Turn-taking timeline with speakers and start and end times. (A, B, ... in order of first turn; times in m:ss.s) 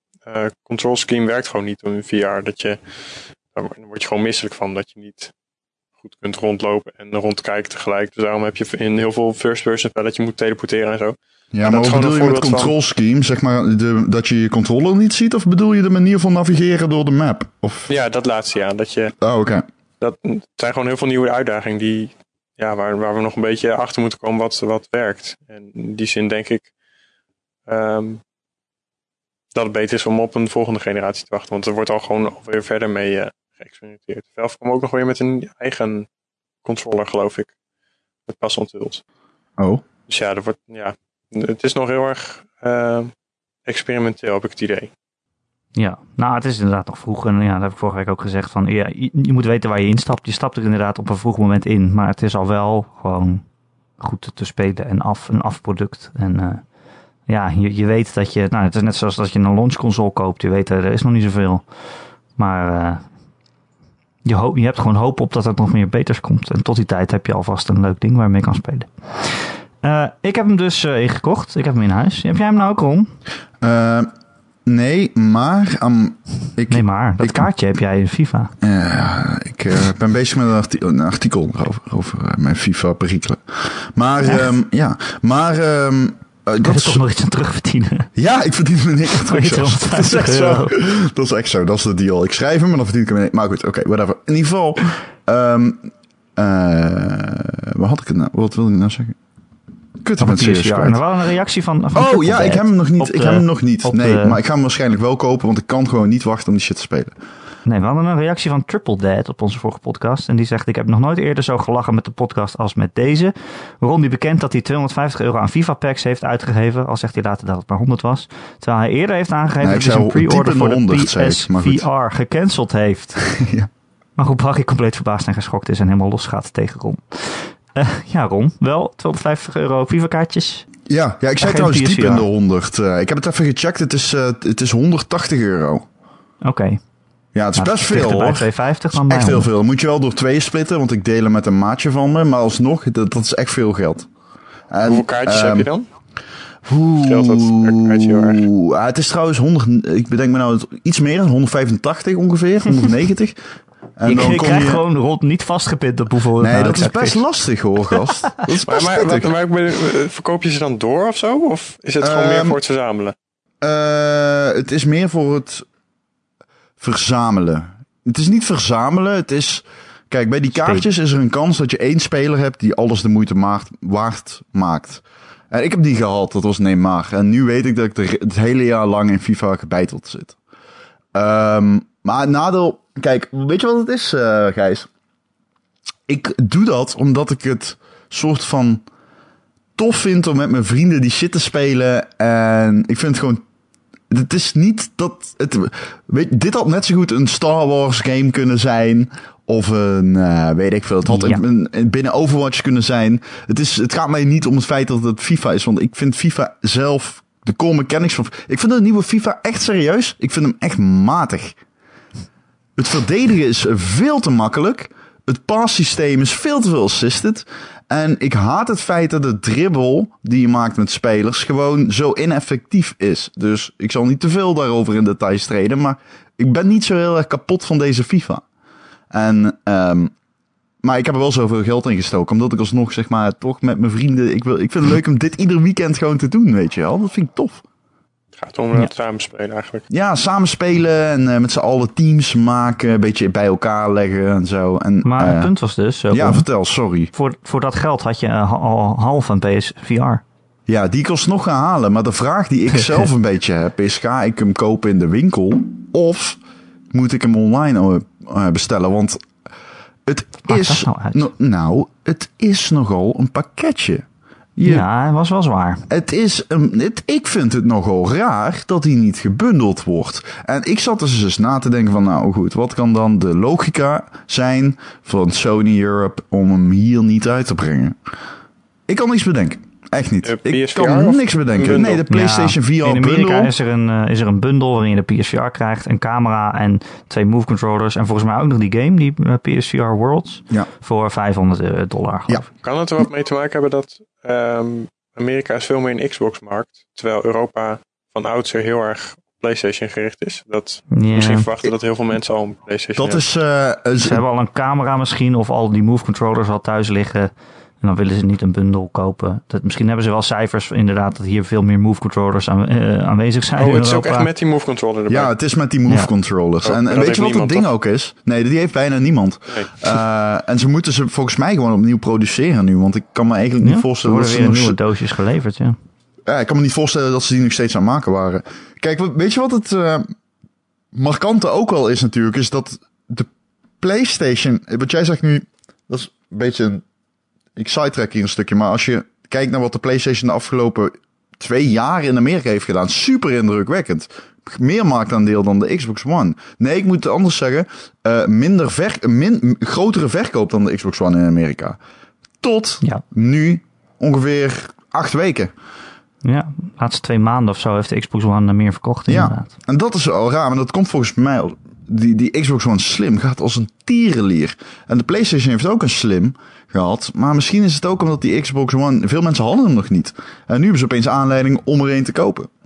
0:00.2-0:02.8 A
0:03.5-0:05.3 A
0:06.0-0:12.8 A
0:11.5-0:17.9 B
0:17.9-0:19.2 A
0:19.2-0:19.6 B
0:20.0-0:26.7 A
0:27.7-0:28.2 A
0:29.5-0:36.1 A
0:36.6-0:37.5 A
0:38.3-0:39.0 A
0:39.6-0:39.8 B
0:40.1-0:43.1 A
0:43.7-0:44.9 A
0:45.8-0:53.4 C
0:54.0-0:56.6 C
0:57.3-1:01.6 C
1:02.4-1:03.0 C
1:04.2-1:13.1 C
1:13.6-1:14.1 B
1:14.7-1:17.4 B
1:16.7-1:18.5 C
1:18.6-1:27.0 B
1:26.6-1:28.1 C
1:28.2-1:39.2 B
1:29.2-1:30.8 C
1:40.0-1:41.0 B
1:40.2-1:44.4 C
1:41.9-1:47.2 B
1:47.7-2:03.2 C
1:59.6-2:01.9 B
2:03.2-2:03.7 B
2:04.2-2:10.7 C
2:10.9-2:15.9 B
2:11.4-2:12.3 C
2:16.4-2:16.8 C
2:17.4-2:24.1 B
2:17.6-2:19.5 C
2:24.7-2:25.7 B
2:24.8-2:25.9 A
2:26.6-2:33.4 B
2:27.0-2:28.5 A
2:34.0-2:34.8 B
2:34.0-2:37.2 C
2:36.4-2:39.3 B
2:38.5-2:43.2 A
2:42.0-2:42.6 B
2:43.6-2:45.7 B
2:46.8-3:00.4 B
2:50.6-2:50.8 C
3:01.1-3:04.9 B
3:06.1-3:08.8 B
3:09.8-3:13.4 B
3:14.1-3:31.6 B
3:21.1-3:21.4 C
3:32.8-3:48.4 B
3:49.1-3:50.1 B
3:50.8-3:57.6 B
3:58.4-3:59.9 A
3:59.9-4:05.5 B
4:05.0-4:06.5 C
4:06.1-4:07.1 B
4:07.1-4:10.2 C
4:10.7-4:16.4 B
4:16.9-4:19.2 B
4:20.1-4:24.0 B
4:20.5-4:21.3 C
4:24.6-4:24.9 B
4:24.6-4:25.9 C
4:25.9-4:38.0 B
4:38.9-4:43.5 B
4:40.2-4:42.0 A
4:42.1-4:52.5 C
4:52.6-5:03.2 A
5:00.9-5:01.5 C
5:03.0-5:04.2 B
5:04.0-5:14.3 C
5:13.6-5:15.3 A
5:15.1-5:24.8 B
5:16.6-5:17.7 A
5:23.6-5:25.8 C
5:26.3-5:30.1 B
5:30.9-5:33.3 B
5:33.8-5:36.8 B
5:37.6-5:51.8 B
5:52.4-5:55.5 B
5:56.2-5:59.5 C
5:59.1-6:12.5 B